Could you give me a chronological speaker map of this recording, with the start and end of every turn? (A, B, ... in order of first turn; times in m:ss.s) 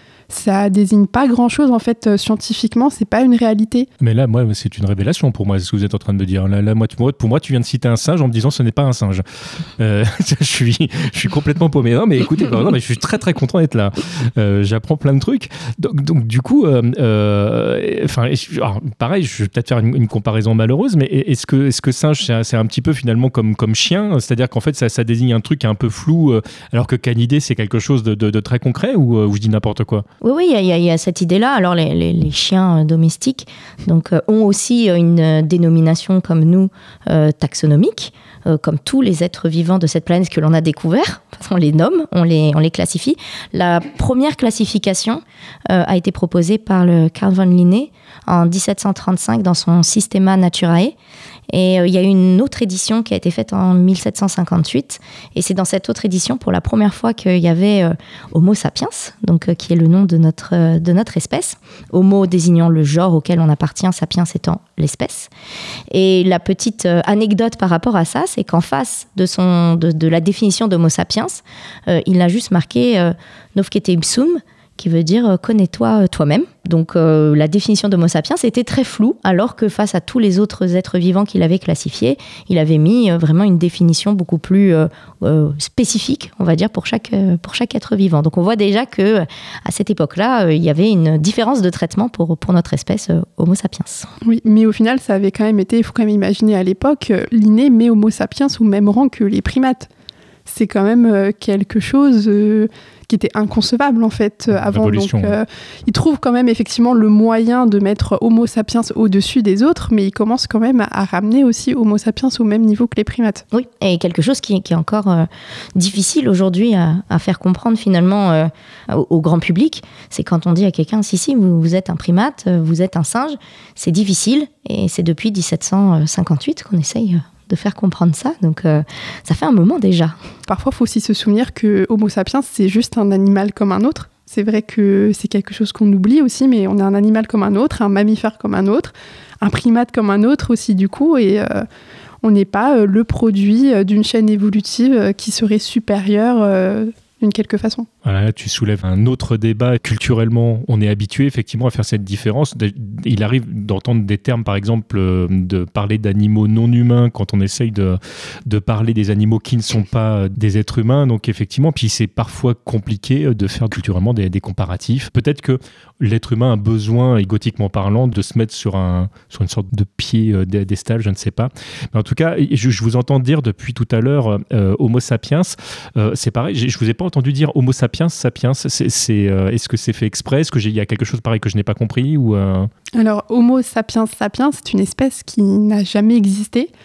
0:00.3-0:03.9 A
0:04.0-0:09.2 B
0:09.8-0:30.0 B
0:30.2-0:50.9 C
0:51.5-1:05.3 C
1:05.9-1:34.1 C
1:34.2-1:39.9 A
1:40.5-1:53.4 A
1:44.5-1:45.4 B
1:53.5-2:10.2 C
2:10.5-2:21.6 A
2:22.2-2:27.9 A
2:28.0-3:02.7 B
3:02.9-3:06.7 A